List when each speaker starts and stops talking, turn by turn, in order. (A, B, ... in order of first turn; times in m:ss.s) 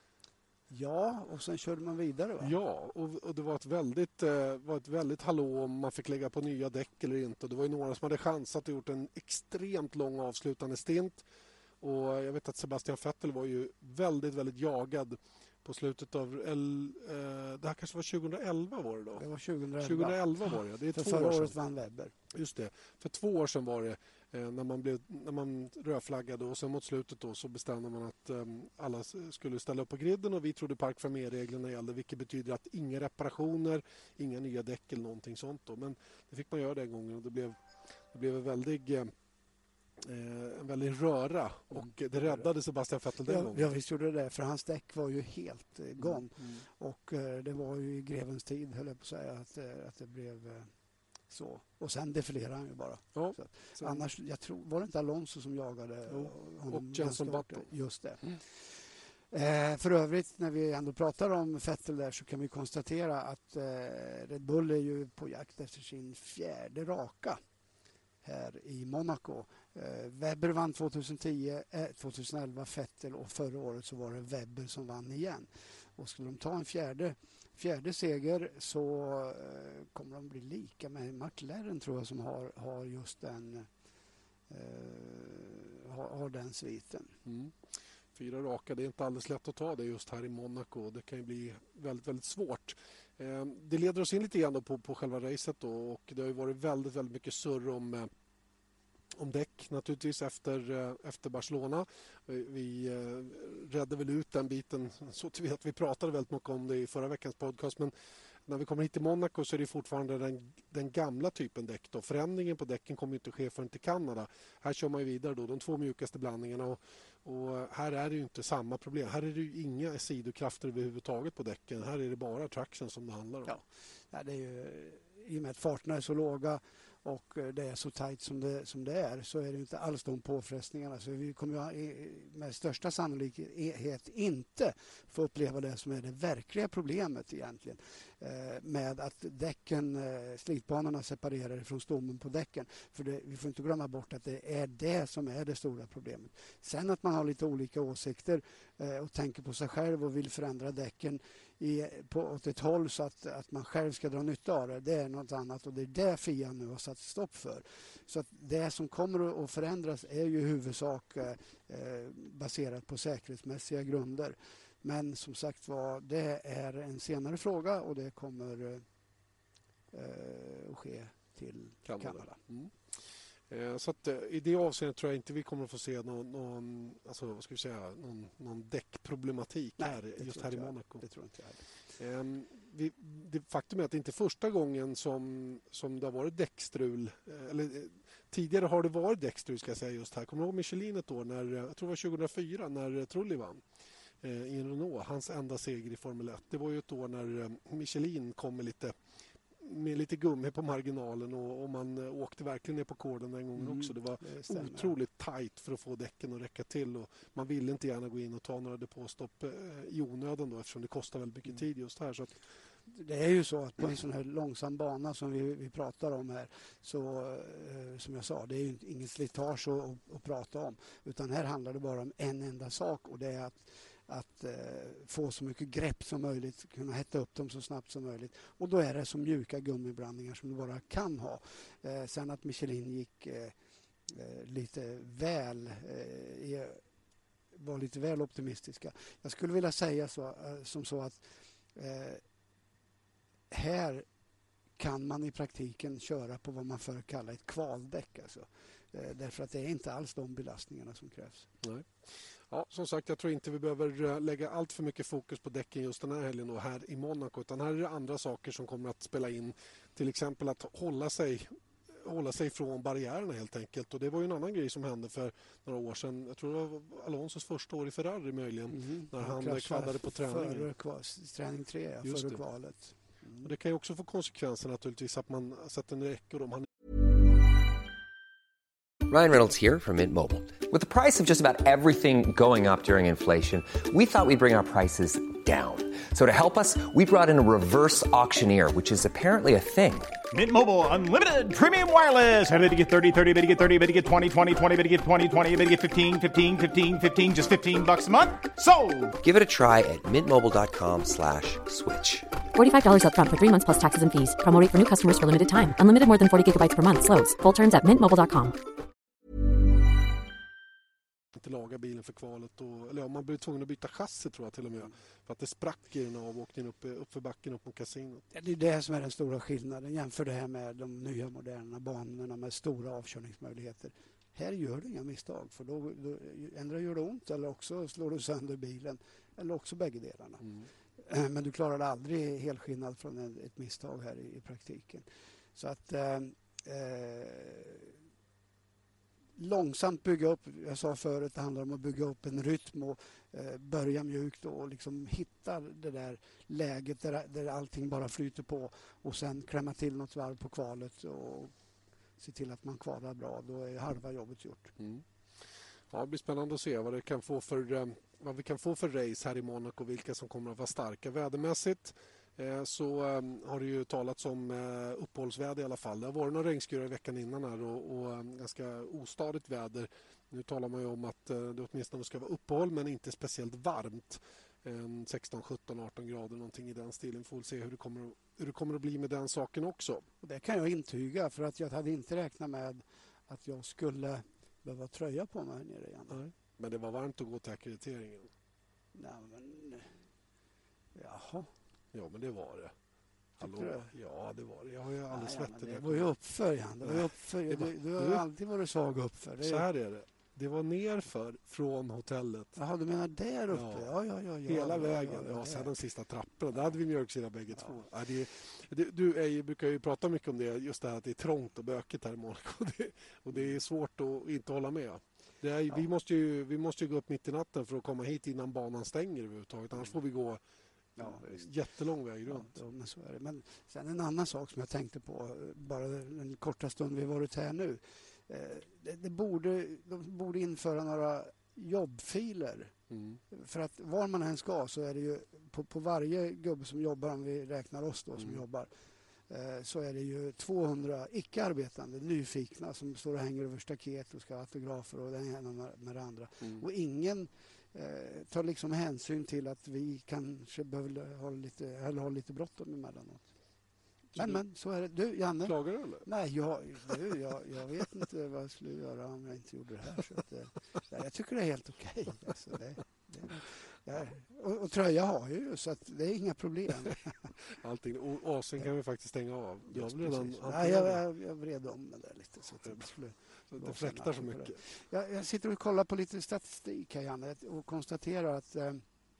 0:00.7-0:02.5 A
0:02.4-0:11.2 B
0:11.8-0:19.2 B
0:19.2-0:22.1 A
0:19.8-0:21.5 B
0:22.3-0:37.6 B
0:38.1-0:39.1 B
0:40.0-0:43.7 B
0:42.2-0:42.4 A
0:43.2-0:50.7 A
0:46.0-0:46.6 B
0:51.3-0:58.6 A
0:53.1-0:54.0 B
0:56.1-0:57.6 B
0:59.3-1:07.4 A
1:08.2-1:23.7 A
1:24.5-1:27.1 A
1:27.2-1:27.6 B
1:28.1-1:38.1 B
1:39.1-1:47.9 B
1:48.4-2:03.5 B
2:03.4-2:48.8 A
2:49.9-2:52.4 A
2:51.9-2:52.7 B
2:53.5-3:01.0 B
2:59.8-3:01.6 A
3:02.0-3:13.6 B
3:14.2-3:19.0 B
3:19.6-3:32.3 B
3:23.6-3:24.9 A
3:32.9-3:53.5 A
3:54.1-3:56.8 A
3:57.5-4:02.2 A
4:03.5-4:04.0 A
4:04.8-4:11.5 A
4:11.6-4:30.7 B
4:28.7-4:33.5 A
4:32.0-4:32.4 B
4:33.4-4:36.7 B
4:39.1-4:50.2 C
4:50.3-4:59.2 D
4:59.2-5:02.3 C
5:02.5-5:08.6 E
5:11.3-5:18.2 B
5:18.3-5:30.5 A
5:31.0-5:37.9 A
5:39.4-5:51.5 A
5:52.2-5:54.8 A
5:54.8-5:55.0 B
5:55.9-6:20.1 B
6:20.2-6:26.2 A
6:26.1-6:28.3 B
6:28.9-6:29.9 A
6:30.9-6:31.5 A
6:31.9-6:32.7 B
6:33.4-6:36.1 B
6:33.4-6:33.9 A
6:35.1-6:39.6 A
6:36.8-6:38.2 B
6:39.4-6:42.6 B
6:42.6-6:45.7 A
6:43.5-6:43.9 B
6:44.4-7:00.4 B
7:01.0-7:01.5 A
7:01.0-7:02.5 B
7:02.2-7:12.7 A
7:12.9-7:13.2 B
7:13.3-7:18.7 A
7:19.3-7:33.3 A
7:34.1-7:34.4 B
7:34.2-7:47.1 A
7:35.4-7:36.1 B
7:47.4-7:51.0 B
7:49.7-7:58.8 A
7:53.5-7:54.6 B